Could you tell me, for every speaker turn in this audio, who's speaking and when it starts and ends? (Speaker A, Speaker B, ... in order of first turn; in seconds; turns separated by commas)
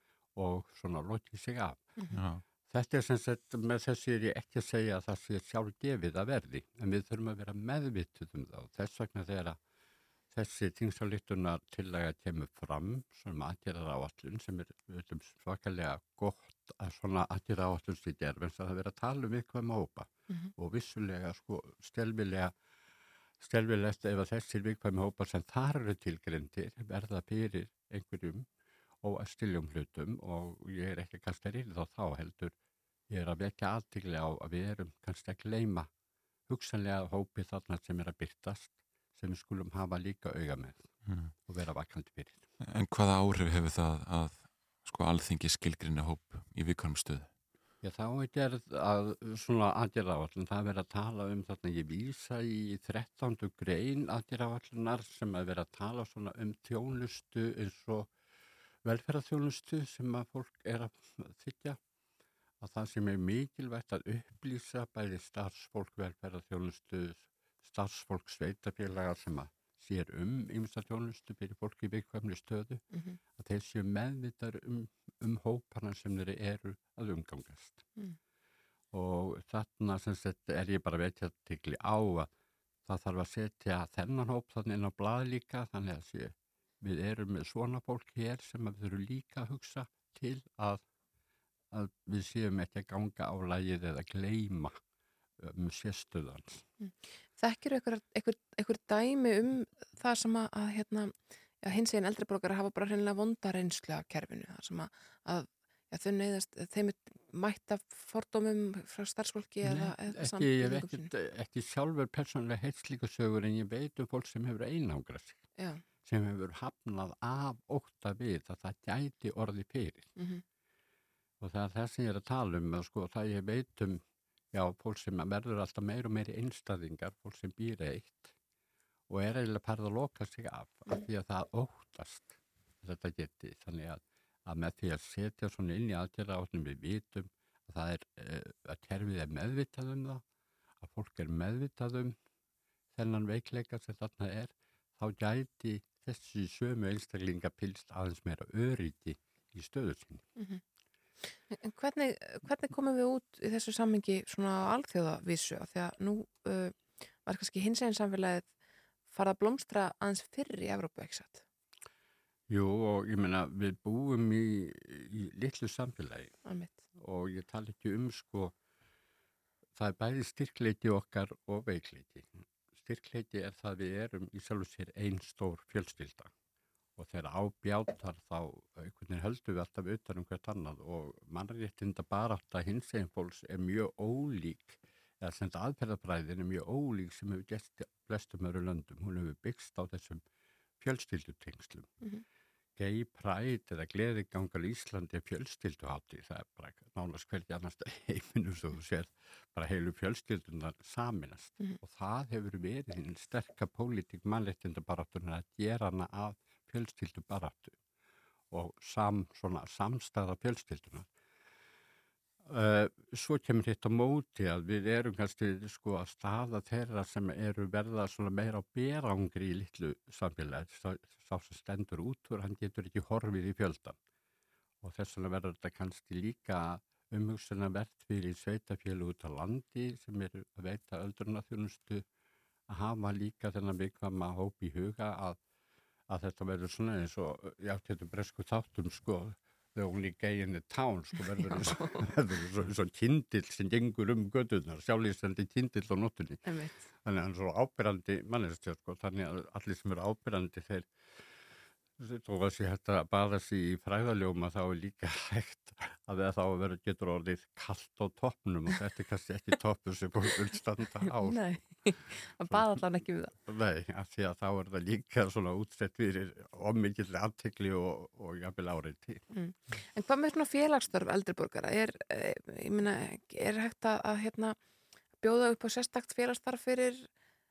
Speaker A: 0.4-1.8, Speaker B: 2.1-2.4, Speaker A: 2.7-9.6, Speaker A: 10.3-22.5, Speaker A: 23.4-28.5, Speaker A: 29.0-32.5, Speaker A: 33.1-35.9, Speaker A: 36.5-40.9, Speaker B: 41.1-41.3, Speaker A: 41.4-42.5, Speaker B: 42.6-47.3, Speaker A: 47.8-58.1, Speaker A: 58.9-61.8, Speaker A: 62.6-72.8, Speaker C: 72.9-73.2, Speaker A: 73.3-77.9, Speaker A: 78.9-82.3, Speaker A: 82.9-90.8, Speaker A: 91.7-94.8, Speaker A: 95.4-96.6, Speaker C: 96.8-111.1, Speaker A: 109.6-115.4, Speaker C: 115.6-115.8, Speaker A: 116.0-120.1, Speaker C: 120.2-120.4, Speaker A: 121.4-128.3, Speaker A: 129.1-140.2, Speaker A: 140.8-142.2, Speaker A: 142.9-150.3, Speaker C: 150.4-150.6, Speaker C: 151.5-158.5, Speaker C: 159.1-161.4, Speaker A: 162.5-166.3, Speaker C: 166.5-166.8, Speaker A: 166.9-168.5, Speaker A: 169.8-176.3, Speaker A: 177.0-190.2, Speaker A: 190.8-191.9, Speaker A: 192.8-207.8, Speaker A: 208.5-211.1, Speaker A: 212.5-224.0, Speaker A: 224.8-232.1, Speaker A: 232.7-235.4, Speaker A: 236.1-246.4, Speaker C: 241.4-242.1, Speaker C: 246.4-246.8, Speaker A: 247.0-250.9, Speaker A: 252.0-261.5, Speaker C: 261.2-263.3, Speaker A: 262.5-262.8, Speaker A: 263.4-269.2, Speaker C: 269.3-274.6, Speaker C: 275.2-277.1